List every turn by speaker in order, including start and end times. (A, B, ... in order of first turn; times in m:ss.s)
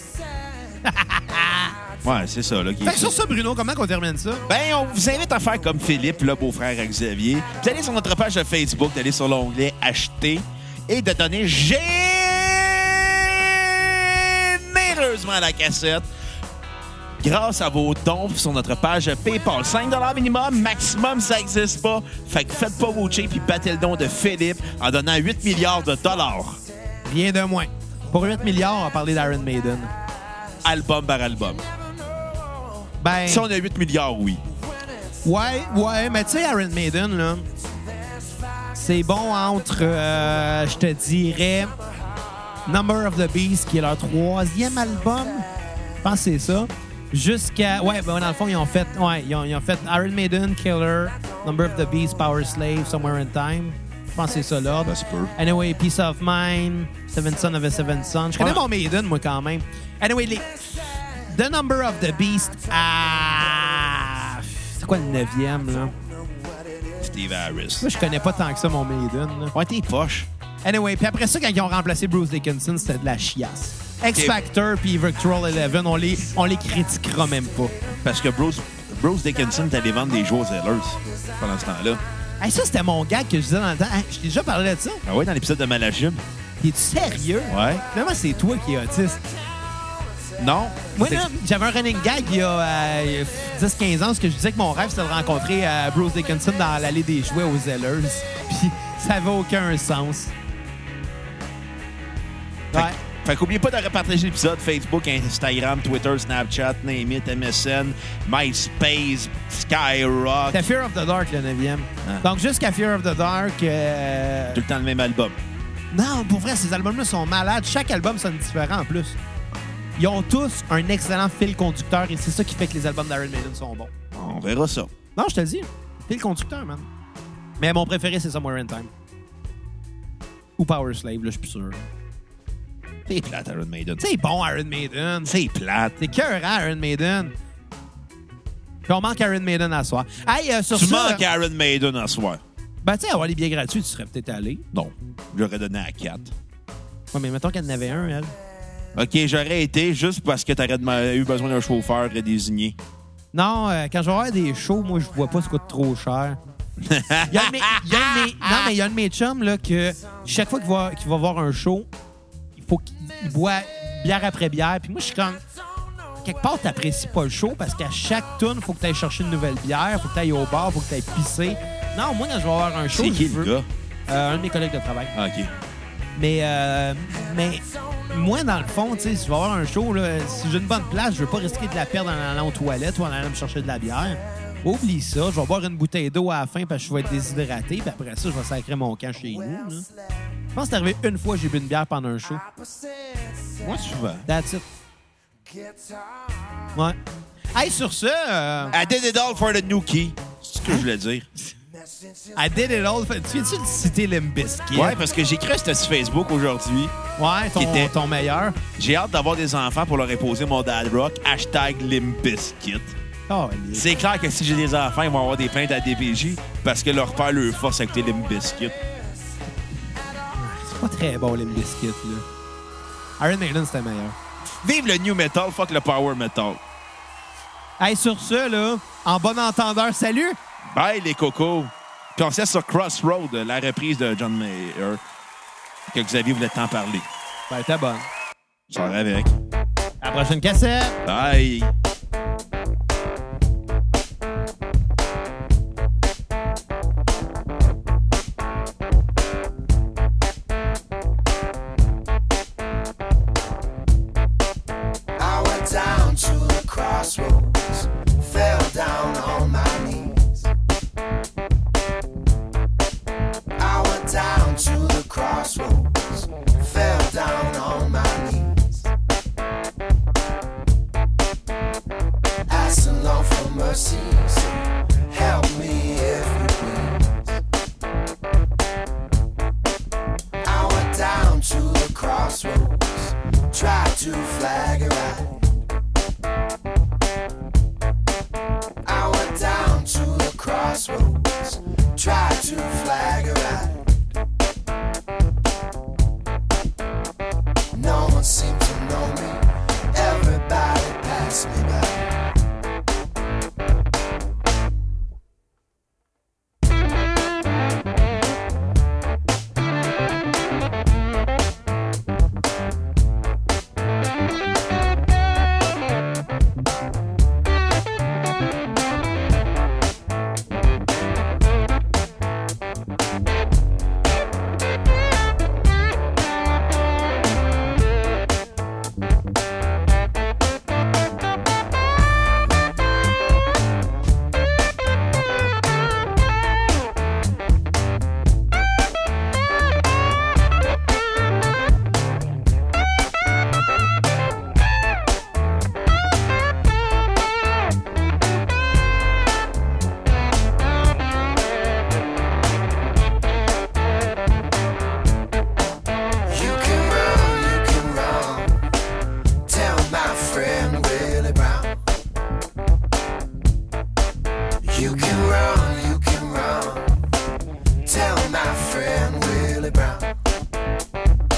0:00.8-0:01.8 A
0:02.0-0:03.2 B
0:02.8-0:04.4 A
0:04.5-0:16.1 B
0:17.2-0:26.6 B
0:27.0-0:29.9 A
0:30.6-0:31.6 B
0:33.0-0:33.4 A
0:33.2-0:34.4 B
0:35.2-0:37.5 A
0:38.7-0:41.7 A
0:42.6-0:45.5 A
0:46.0-1:06.0 A
0:54.8-0:55.3 B
0:58.4-0:58.6 B
1:07.0-1:07.9 B
1:07.8-1:09.5 A
1:09.5-1:10.3 B
1:10.6-1:17.8 A
1:18.0-1:22.0 B
1:22.4-1:25.0 A
1:25.0-1:26.2 B
1:26.6-1:29.3 A
1:27.5-1:27.8 B
1:30.4-1:31.3 B
1:30.9-1:40.3 A
1:42.7-1:50.7 B
1:42.7-1:43.0 A
1:50.5-1:54.6 A
1:54.5-1:55.4 B
1:55.9-1:59.2 A
2:00.0-2:03.9 A
2:04.1-2:04.9 B
2:05.2-2:06.9 A
2:07.6-2:08.9 A
2:10.6-2:11.9 A
2:13.1-2:14.0 B
2:14.0-2:15.3 A
2:15.2-2:16.0 B
2:16.0-2:17.3 A
2:18.9-2:21.2 A
2:20.7-2:22.4 B
2:22.8-2:24.6 A
2:24.7-2:26.3 B
2:27.1-2:28.3 A
2:28.9-2:32.8 B
2:33.3-2:36.4 A
2:36.8-2:38.7 B
2:37.3-2:41.9 A
2:42.6-2:45.4 A
2:46.2-2:53.5 A
2:52.9-2:53.7 B
2:54.1-2:55.1 A
2:55.1-2:55.5 B
2:56.2-3:09.8 A
3:10.5-3:12.4 A
3:12.6-3:13.6 C
3:13.6-3:14.3 B
3:14.2-3:14.6 A
3:15.5-3:16.4 C
3:17.5-3:18.8 A
3:18.7-3:21.3 B
3:22.3-3:25.0 A
3:24.7-3:26.9 B
3:27.2-3:28.6 A
3:27.5-3:27.9 B
3:28.8-3:32.9 B
3:33.3-3:33.9 A
3:33.7-3:38.8 B
3:40.3-3:42.2 A
3:43.2-3:44.1 A
3:44.6-3:46.6 B
3:47.8-3:50.4 A
3:50.6-3:55.0 B
3:55.9-3:57.1 B
3:57.5-3:58.1 A
3:58.7-3:59.3 B
4:00.0-4:01.0 A
4:01.0-4:01.7 B
4:15.2-4:20.5 C
4:23.6-4:28.9 C
4:32.5-4:37.4 C
4:40.4-4:45.4 C
4:48.8-4:53.8 C
4:57.7-5:02.1 C
5:56.3-5:58.6 C
5:59.4-6:01.8 C
6:04.6-6:07.1 C
6:07.8-6:10.1 C